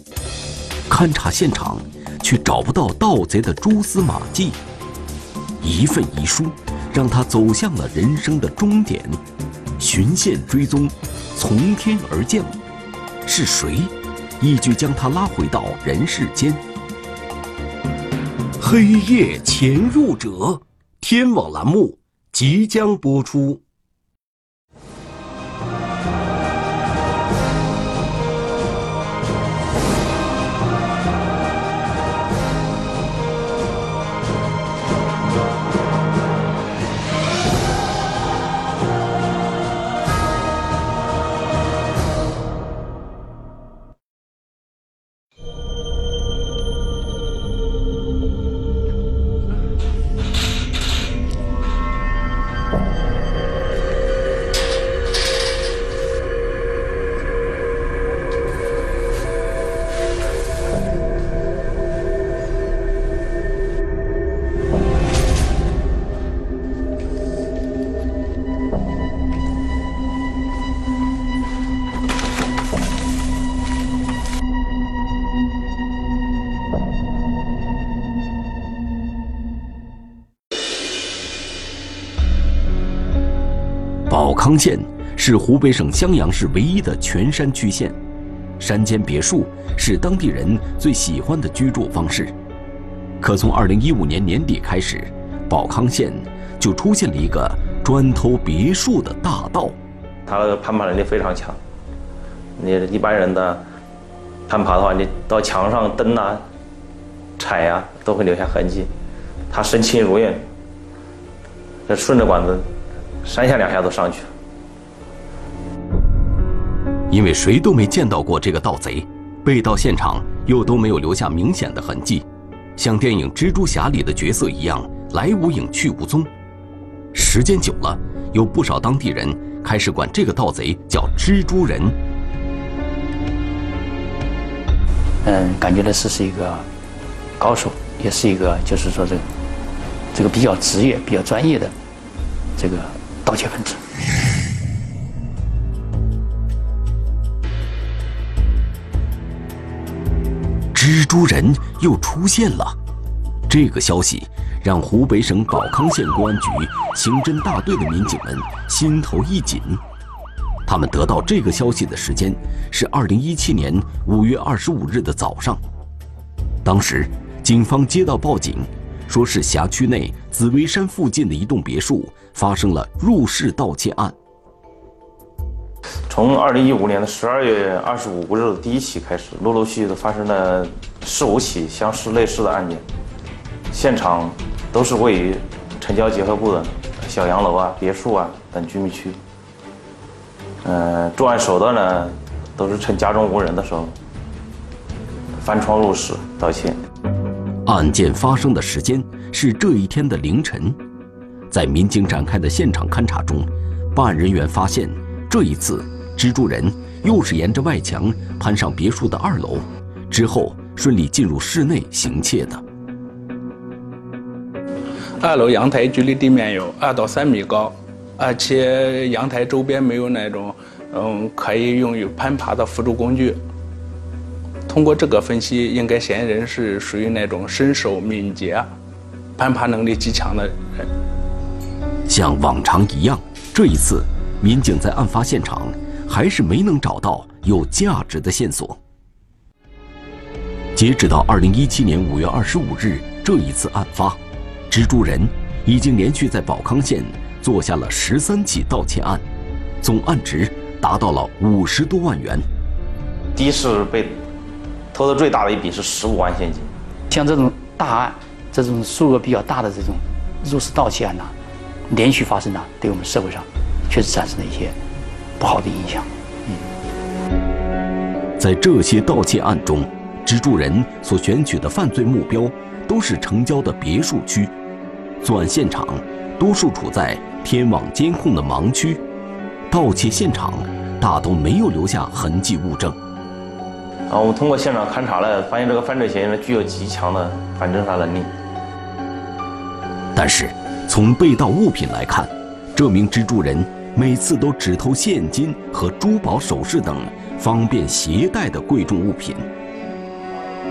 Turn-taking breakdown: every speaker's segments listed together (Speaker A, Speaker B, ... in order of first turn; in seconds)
Speaker A: 0.9-4.6, 5.6-9.2, 9.8-12.6, 13.2-16.6, 18.6-23.6, 84.1-88.0, 88.6-92.3, 93.2-99.8, 117.1-122.2, 122.8-126.3, 127.1-132.0, 150.7-152.8, 153.5-159.8, 160.7-165.6, 166.6-174.2, 197.7-200.8, 201.5-212.6, 232.1-238.8, 240.8-249.2, 249.8-252.5, 268.4-274.5, 275.2-279.0, 279.7-283.0, 290.1-299.5
Speaker B: 100.3-101.6, 102.6-103.6, 104.5-106.4, 107.4-108.9, 109.5-110.5, 111.9-112.7, 113.2-114.3, 176.1-182.8, 183.7-189.2, 190.6-193.9, 195.4-196.8, 253.3-254.2, 254.9-256.7, 284.1-288.3
Speaker C: 135.2-136.7, 137.4-139.2, 140.1-141.7, 142.6-143.8, 257.1-261.4, 261.9-264.8, 265.4-266.7
Speaker D: 215.2-223.4, 224.7-228.7, 229.4-230.6